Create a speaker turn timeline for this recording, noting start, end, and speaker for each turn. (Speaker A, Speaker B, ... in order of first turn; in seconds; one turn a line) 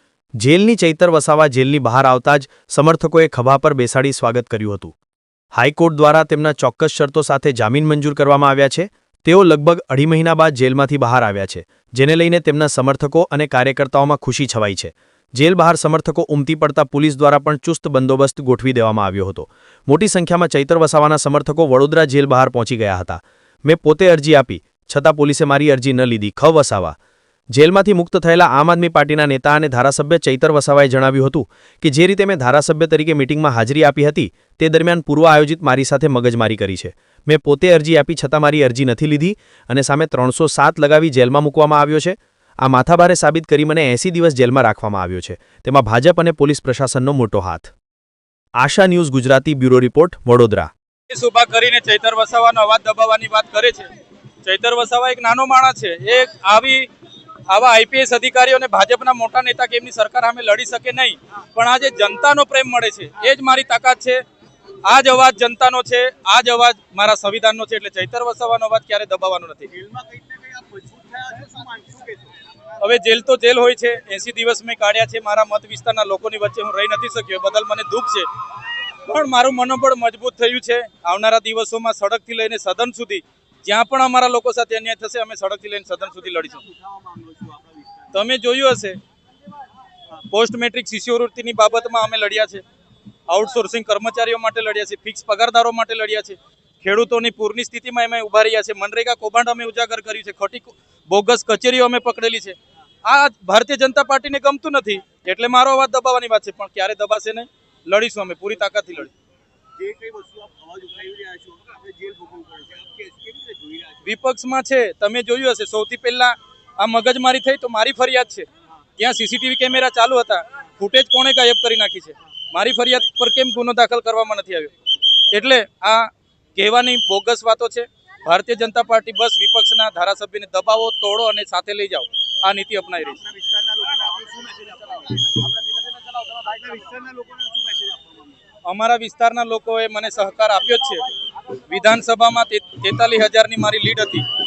Speaker A: 0.4-4.9
Speaker A: 5.5-26.9
Speaker A: 27.5-47.7
Speaker A: 48.6-50.7
Speaker B: 51.1-53.9
Speaker B: 54.4-56.9
Speaker B: 57.5-64.2
Speaker B: 64.8-69.7
Speaker C: 69.7-72.4
Speaker B: 72.8-78.3
Speaker B: 79.0-86.6
Speaker C: 86.4-88.1
Speaker B: 88.1-89.0
Speaker B: 90.2-92.6
Speaker B: 93.3-109.1
Speaker C: 109.8-114.0
Speaker B: 114.0-118.5
Speaker B: 119.0-124.7
Speaker B: 125.3-133.2
Speaker C: 133.2-135.4
Speaker C: 136.2-138.4
Speaker B: 138.7-141.0
Speaker B: 141.7-144.2